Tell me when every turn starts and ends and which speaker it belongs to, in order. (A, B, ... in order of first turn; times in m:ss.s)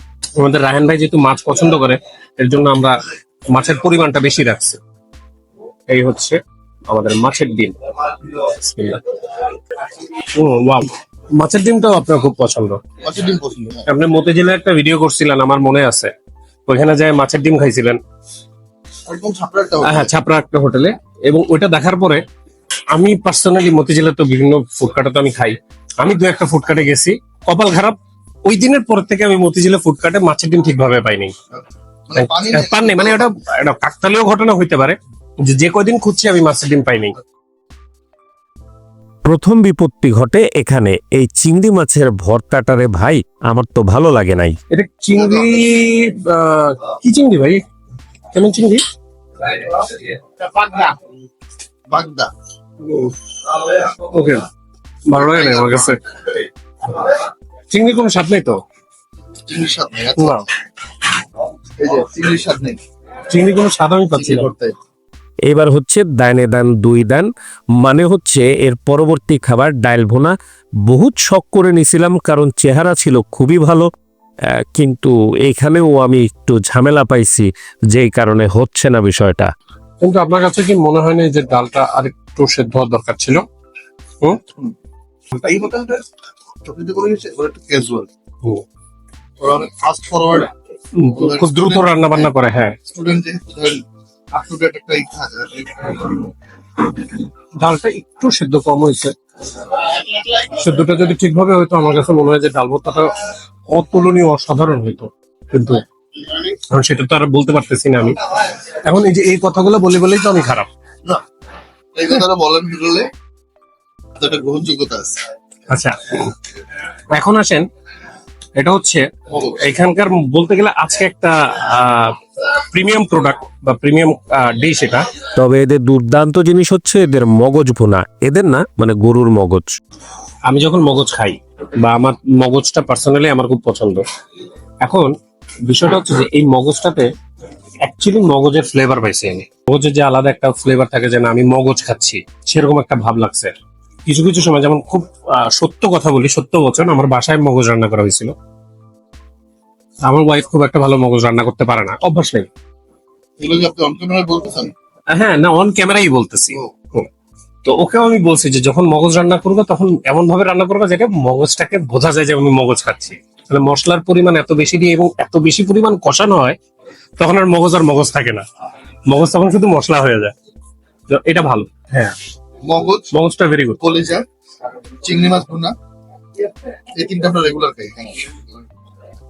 0:00.4-0:03.0 A
0:03.5-0:04.8 A
0:05.9-0:07.8 A
0:08.3-0:09.0 A
0:10.3-0:12.8 A
0:13.0-0:13.8 B
0:13.8-0:16.1 A
0:16.7-0:18.0 A
0:19.0-0:20.1 B
0:19.8-0:22.2 A
0:22.9-0:31.3 A
0:32.1-0:33.3 B
0:32.2-0:37.2 A
0:39.2-0:44.6 C
0:44.7-0:47.6 A
0:45.2-0:45.6 B
0:48.3-0:48.8 A
0:49.4-0:50.9 A
0:51.9-0:52.3 B
0:52.8-0:54.4 A
0:55.1-0:56.0 A
0:55.1-0:56.0 B
0:57.7-0:58.6 A
0:59.5-1:00.4 B
1:00.2-1:00.4 A
1:01.8-1:02.8 B
1:03.3-1:04.5 A
1:04.1-1:04.8 B
1:05.5-1:10.3 C
1:10.9-1:13.9 C
1:14.5-1:19.5 C
1:20.0-1:23.4 A
1:25.3-1:26.0 B
1:26.6-1:28.1 B
1:29.4-1:30.5 B
1:31.0-1:32.8 A
1:31.1-1:32.3 B
1:32.9-1:33.8 B
1:34.3-1:36.3 B
1:37.6-1:43.1 A
1:43.7-1:45.8 A
1:46.3-1:50.7 A
1:51.9-1:53.1 B
1:54.2-1:55.2 B
1:55.7-1:56.4 A
1:57.1-1:57.6 A
1:58.6-2:05.1 A
2:05.4-2:09.7 C
2:10.4-2:14.0 A
2:14.8-2:15.1 A
2:15.6-2:17.1 A
2:17.8-2:23.5 A
2:24.0-2:28.3 A
2:30.0-2:32.5 A
2:33.4-2:34.7 B
2:35.1-2:37.1 A
2:37.6-2:46.6 A
2:47.2-2:48.4 A
2:49.1-2:50.3 A
2:51.1-2:52.1 A
2:52.6-2:53.1 B
2:53.1-2:53.8 A
2:53.8-2:54.2 B
2:55.0-2:55.7 B
2:57.0-2:58.4 B